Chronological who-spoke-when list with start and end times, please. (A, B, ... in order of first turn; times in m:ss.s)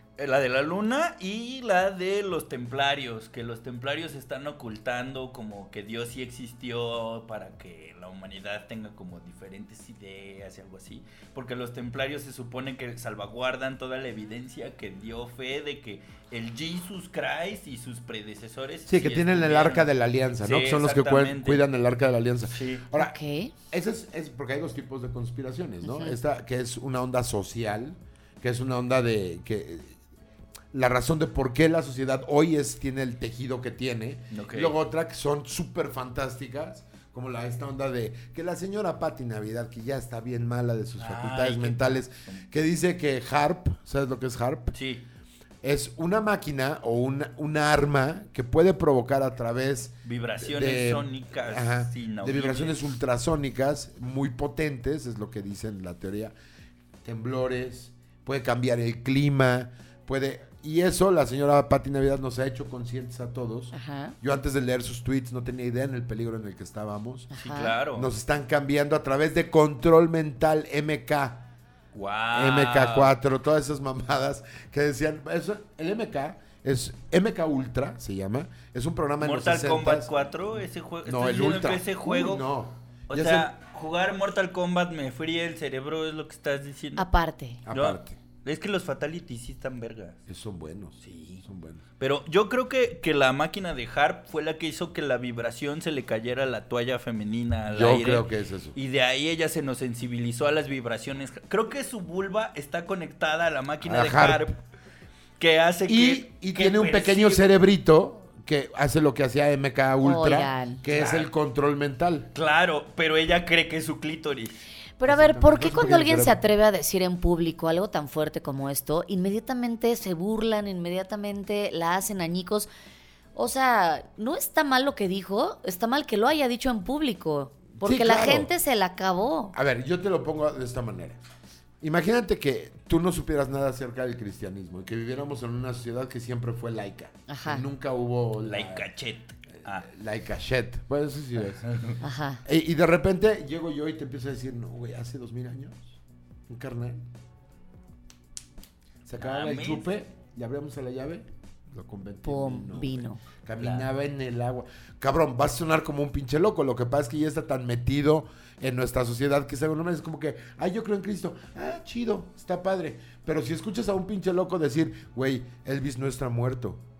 0:00.2-0:19.9 A
0:18.9-0:23.1 B
0:20.4-0:21.6 A
0:22.5-0:22.8 A
0:23.0-0:23.5 C
0:23.7-0:29.9 B
0:25.8-0:26.1 C
0:30.7-0:44.7 B
0:34.3-0:34.7 A
0:41.0-0:42.4 A
0:44.7-0:45.0 A
0:45.6-0:56.3 B
0:50.0-0:52.8 A
0:57.0-1:07.3 B
1:03.7-1:04.1 C
1:07.3-1:07.8 C
1:07.4-1:08.1 A
1:07.9-1:11.4 B
1:11.9-1:13.1 A
1:12.3-1:20.1 B
1:19.2-1:22.4 A
1:21.0-1:23.5 B
1:23.1-1:27.1 A
1:27.0-1:27.6 C
1:27.6-1:28.2 B
1:27.7-1:30.2 A
1:30.3-1:31.8 B
1:31.0-1:31.4 A
1:32.0-1:44.6 A
1:37.7-1:38.8 B
1:43.8-1:44.5 B
1:45.4-1:47.5 A
1:45.9-1:52.3 B
1:50.0-1:50.8 C
1:50.9-1:51.3 A
1:52.3-1:54.6 A
1:55.0-2:02.7 C
1:55.1-1:56.4 B
2:03.3-2:09.5 C
2:07.8-2:08.5 B
2:09.5-2:11.2 B
2:11.8-2:18.9 B
2:17.3-2:17.6 C
2:18.4-2:19.9 A
2:19.7-2:21.6 B
2:21.6-2:22.0 A
2:22.0-2:22.4 C
2:22.4-2:25.9 B
2:26.5-2:27.0 B
2:29.0-2:46.8 B
2:29.2-2:29.9 A
2:32.2-2:33.2 C
2:33.6-2:33.8 A